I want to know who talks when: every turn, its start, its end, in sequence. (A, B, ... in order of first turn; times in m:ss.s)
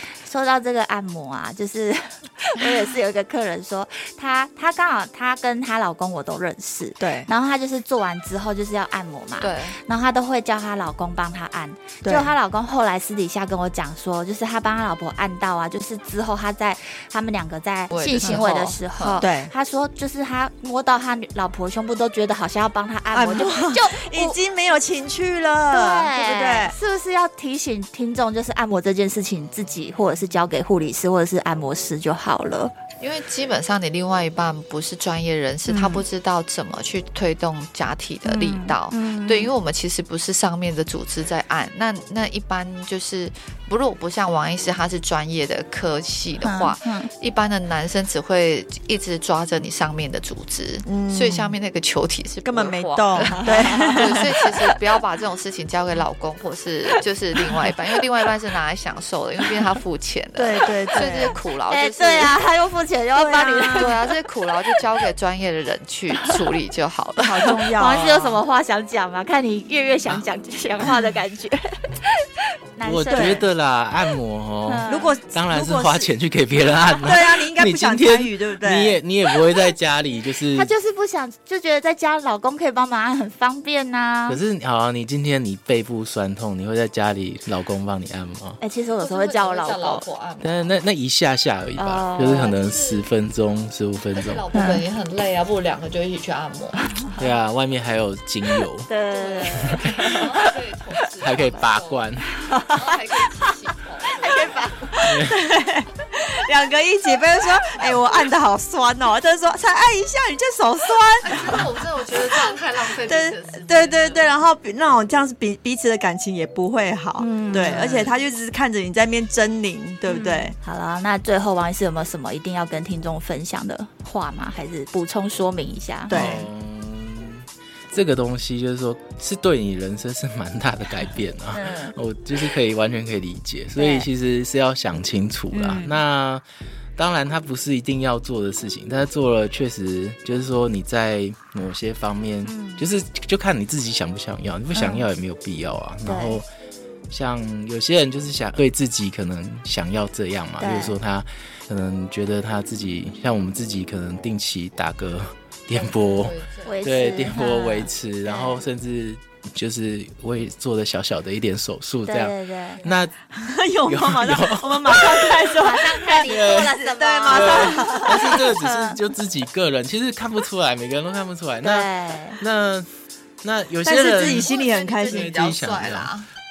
0:00.2-0:24.4 A
0:07.0-0:07.3 B
0:09.4-0:09.8 C
0:12.0-0:12.3 B
0:17.9-0:19.3 C
0:19.2-0:19.5 B
0:23.1-0:26.8 B
0:25.7-0:32.7 A
0:33.0-1:02.4 C
0:35.7-0:36.0 A
0:38.2-0:39.5 A
0:46.4-0:47.1 A
0:50.9-0:51.5 B
0:52.4-0:54.3 B
0:53.3-0:54.2 A
1:00.4-1:01.4 B
1:01.7-1:04.0 A
1:03.1-1:03.9 B
1:03.7-1:07.6 C
1:07.2-1:08.4 B
1:07.4-1:13.5 A
1:12.8-1:20.7 D
1:13.1-1:13.5 B
1:14.7-1:15.1 A
1:14.9-1:16.1 B
1:17.0-1:19.0 B
1:20.5-1:24.4 A
1:24.3-1:28.6 D
1:28.6-1:30.0 A
1:29.0-1:30.7 C
1:30.4-1:34.4 D
1:31.8-1:32.5 A
1:32.2-1:33.1 C
1:34.1-1:36.8 C
1:34.5-1:34.8 A
1:37.2-1:38.9 D
1:38.6-1:40.5 A
1:39.1-1:42.1 C
1:39.6-1:40.2 D
1:41.2-1:42.3 D
1:42.3-1:43.4 A
1:42.7-1:44.7 C
1:44.2-1:45.1 A
1:45.0-1:51.7 B
1:45.0-1:45.4 D
1:51.2-1:54.3 C
1:53.0-2:00.6 B
1:57.2-1:58.1 A
1:57.7-1:58.0 D
2:00.1-2:06.3 A
2:06.1-2:06.5 B
2:06.1-2:16.4 D
2:11.5-2:11.9 A
2:13.8-2:14.1 A
2:15.5-2:16.0 A
2:17.0-2:26.5 D
2:22.4-2:22.8 A
2:24.8-2:25.0 A
2:26.1-2:26.4 A
2:27.1-2:43.1 D
2:30.6-2:31.0 A
2:35.7-2:36.8 C
2:36.7-2:38.6 A
2:42.1-2:42.8 A
2:43.3-2:48.5 B
2:43.9-2:45.3 D
2:45.1-2:49.0 A
2:46.3-2:52.9 D
2:51.6-2:52.4 A
2:53.4-2:54.5 D
2:53.8-2:55.3 B
2:54.1-2:56.3 C
2:55.0-2:56.1 D